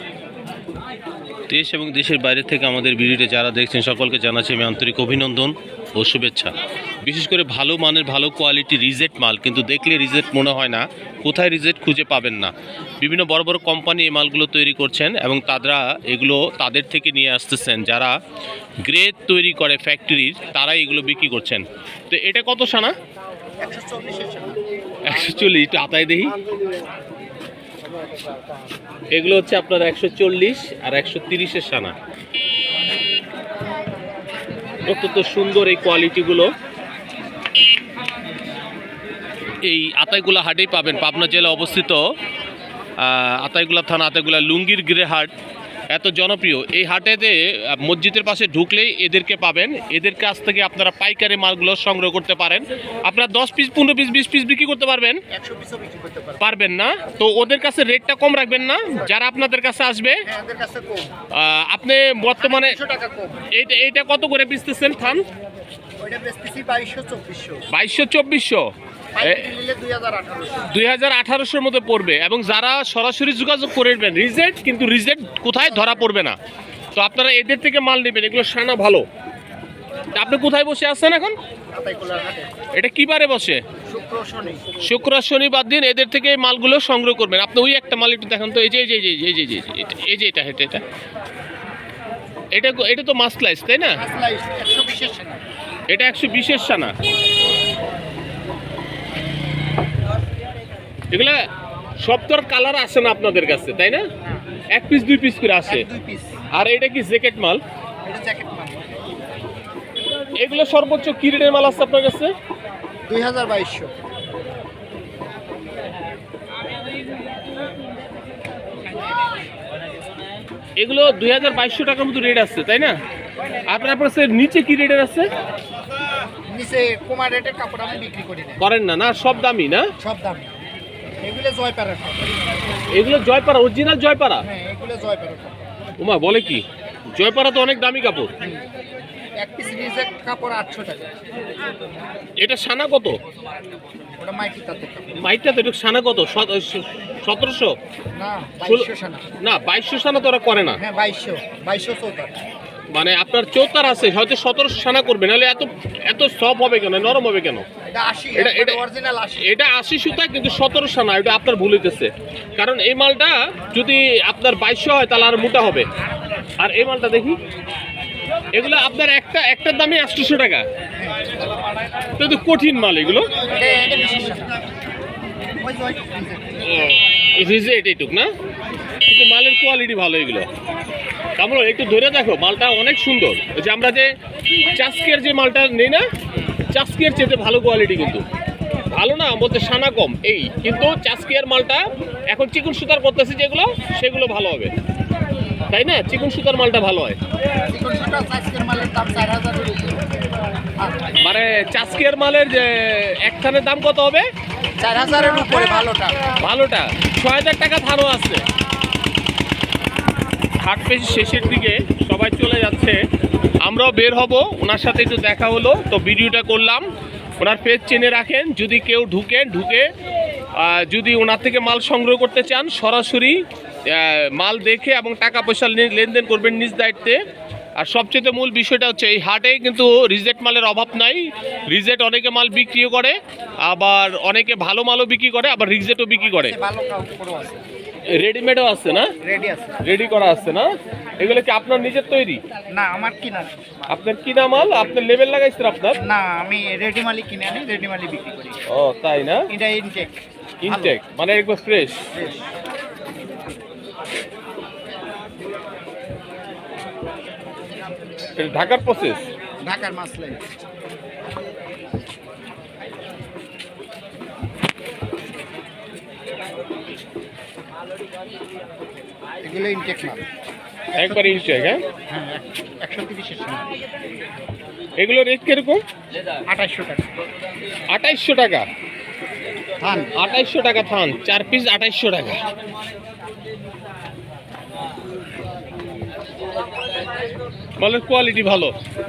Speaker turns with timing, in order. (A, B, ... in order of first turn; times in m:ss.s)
0:01.5-0:18.1 A
0:18.8-0:22.9 A
0:23.6-0:24.6 B
0:25.0-0:26.3 A
0:29.1-0:32.0 A
0:34.8-0:36.5 A
0:39.6-0:42.0 A
0:43.0-0:45.3 A
0:45.9-0:55.2 A
0:55.3-0:56.4 B
0:56.4-1:00.2 A
1:00.3-1:01.1 B
1:01.3-1:02.8 A
1:02.4-1:03.5 B
1:03.5-1:05.2 A
1:06.0-1:07.6 B
1:07.7-1:08.7 A
1:09.1-1:10.7 B
1:09.2-1:09.5 A
1:10.6-1:16.4 A
1:16.9-1:19.0 A
1:20.1-1:21.4 A
1:21.7-1:22.5 B
1:22.7-1:23.6 A
1:23.8-1:24.8 B
1:24.8-1:30.8 A
1:32.5-1:34.0 A
1:33.9-1:35.4 B
1:35.9-1:36.9 A
1:41.1-1:41.4 A
1:42.0-1:44.0 A
1:44.7-1:45.8 A
1:45.7-1:46.4 B
1:46.5-1:47.6 A
1:48.0-1:49.0 B
1:50.3-1:52.3 A
1:53.0-1:53.9 B
2:00.8-2:03.0 A
2:03.7-2:05.3 A
2:06.5-2:08.6 B
2:08.6-2:09.9 A
2:10.0-2:10.5 B
2:11.2-2:12.6 B
2:12.9-2:14.4 A
2:14.4-2:15.7 B
2:16.0-2:18.3 A
2:19.4-2:21.1 B
2:22.4-2:23.2 A
2:24.2-2:25.2 B
2:25.1-2:27.8 A
2:28.1-2:29.2 B
2:28.6-2:28.9 A
2:29.4-2:30.8 A
2:30.8-2:32.4 B
2:32.9-2:37.6 A
2:37.9-2:39.6 B
2:38.4-2:38.8 A
2:39.4-2:45.9 A
2:46.6-2:47.4 A
2:48.5-2:50.6 A
2:51.0-2:51.4 B
2:52.2-2:53.3 A
2:53.4-2:54.6 B
2:55.6-2:56.8 B
2:56.6-2:58.3 A
2:59.1-3:00.5 A
3:01.4-3:04.1 A
3:04.7-3:06.0 A
3:06.7-3:08.2 A
3:08.9-3:14.7 A
3:15.7-3:17.2 A
3:17.6-3:20.1 B
3:20.8-3:21.1 B
3:21.2-3:24.2 A
3:24.8-3:26.3 B
3:26.3-3:28.4 A
3:30.6-3:33.0 A
3:33.6-3:36.9 A
3:37.4-3:39.9 A
3:40.5-3:47.2 A
3:47.8-3:56.6 A
3:56.3-3:57.6 B
3:58.1-3:59.1 A
3:59.2-3:59.8 B
3:59.8-4:00.7 A
4:01.2-4:02.4 A
4:02.7-4:03.8 B
4:03.9-4:06.0 A
4:06.0-4:08.6 B
4:08.7-4:09.5 A
4:09.5-4:11.0 B
4:10.6-4:12.1 A
4:12.1-4:12.5 B
4:18.4-4:19.3 A
4:19.6-4:20.4 B
4:29.4-4:30.2 B
4:30.9-4:33.7 B
4:31.0-4:31.8 A
4:35.0-4:35.8 A
4:36.5-4:37.1 B
4:37.9-4:38.7 A
4:39.8-4:40.1 B
4:40.1-4:42.4 A
4:47.8-4:48.7 A